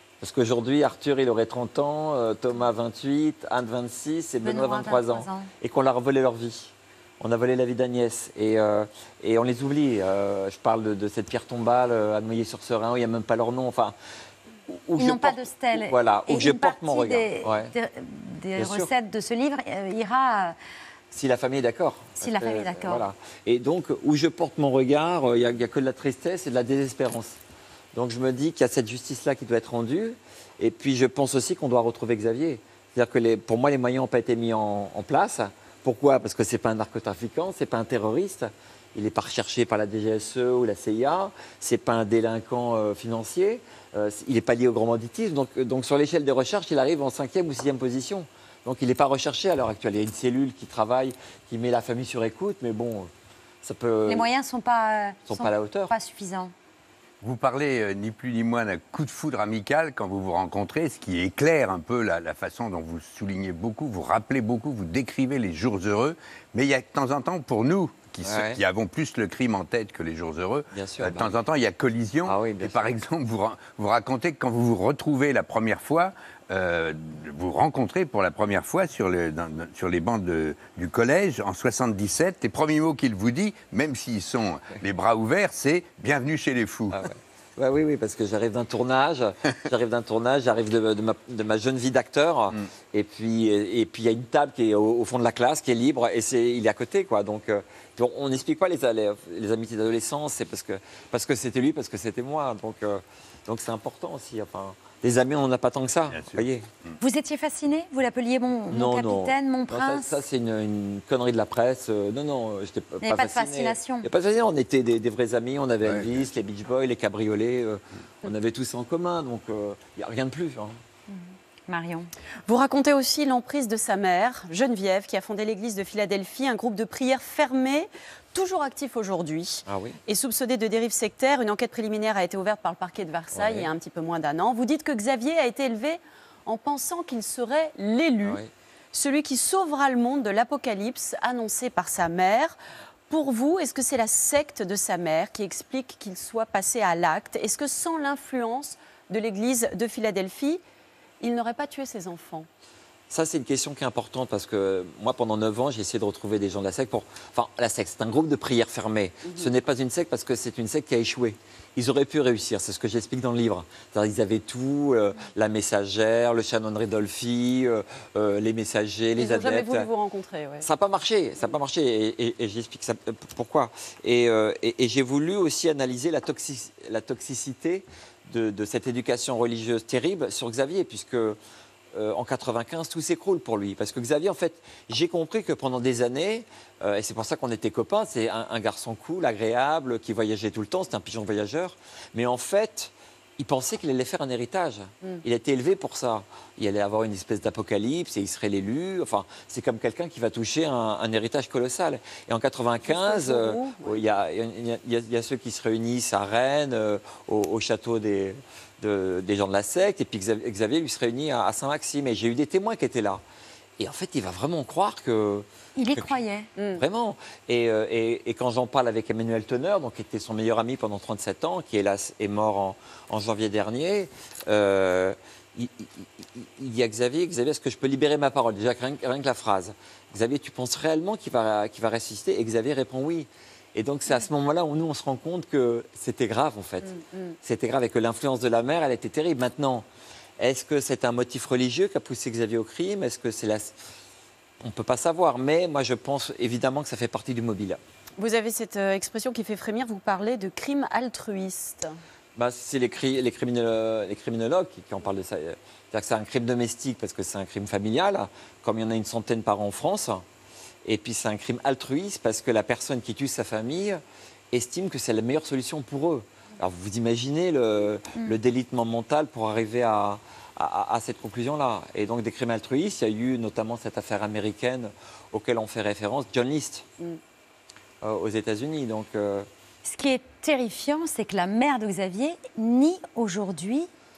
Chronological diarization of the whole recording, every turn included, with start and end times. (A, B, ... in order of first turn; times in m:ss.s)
0:00.2-0:13.9 A
0:04.4-0:05.5 B
0:14.7-0:17.7 A
0:15.0-0:20.6 B
0:18.6-0:18.9 A
0:21.1-0:27.4 A
0:22.2-0:23.0 B
0:27.9-0:53.1 A
0:53.6-0:54.2 A
0:54.1-0:56.5 B
0:55.3-0:55.9 A
0:57.2-1:27.1 C
1:08.2-1:08.6 A
1:10.7-1:11.3 A
1:12.2-1:13.0 A
1:26.9-1:46.7 A
1:46.1-1:46.5 C
1:47.0-1:50.2 B
1:48.7-2:00.8 A
1:53.0-1:54.1 B
1:55.8-1:56.2 C
2:01.1-2:02.1 B
2:02.4-2:18.4 D
2:09.7-2:10.0 A
2:13.3-2:13.7 A
2:18.2-2:18.5 A
2:18.9-2:22.6 D
2:23.1-2:30.6 D
2:31.2-2:32.5 D
2:33.1-2:49.9 A
2:39.2-2:39.5 D
2:49.2-2:50.7 D
2:50.6-3:01.4 A
3:01.9-3:33.2 A
3:22.8-3:24.0 D
3:33.8-3:36.2 A
3:35.8-3:36.5 B
3:36.6-3:36.8 D
3:36.8-3:59.8 A
3:56.8-3:57.3 D
4:00.4-4:03.7 A
4:04.6-4:07.8 A
4:08.2-4:11.9 D
4:12.4-4:20.2 A
4:20.8-4:24.0 A
4:24.5-4:36.8 A
4:38.0-4:39.5 A
4:39.8-4:43.9 B